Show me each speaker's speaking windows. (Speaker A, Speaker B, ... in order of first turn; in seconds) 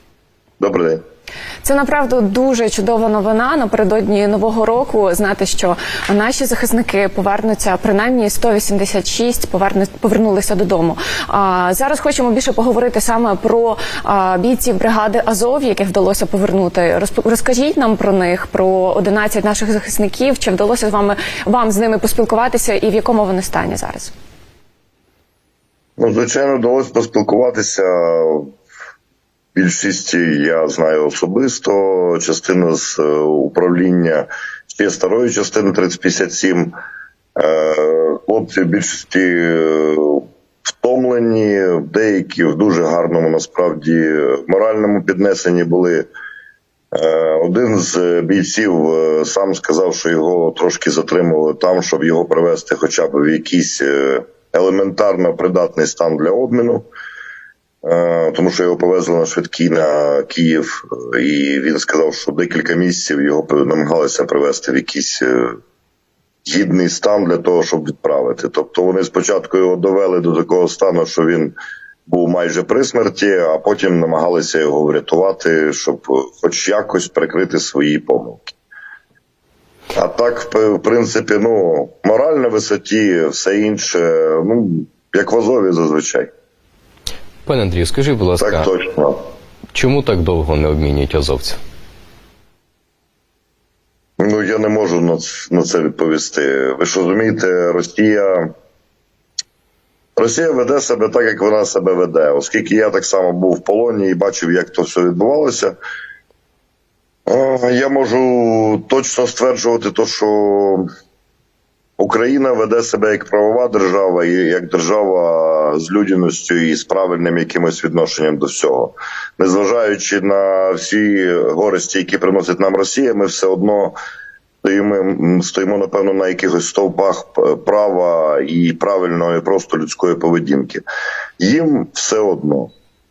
Speaker A: 0.6-1.0, 26.0-28.5, 29.5-36.7, 37.4-46.1, 46.9-56.9, 57.8-65.6, 66.4-71.5, 72.1-78.5, 79.9-86.3, 88.4-89.2, 94.2-98.5, 100.2-105.8, 107.3-110.8, 112.0-124.0, 124.6-130.8, 131.4-132.7
Speaker B: 1.6-24.1
Speaker C: 87.5-88.7, 89.7-91.6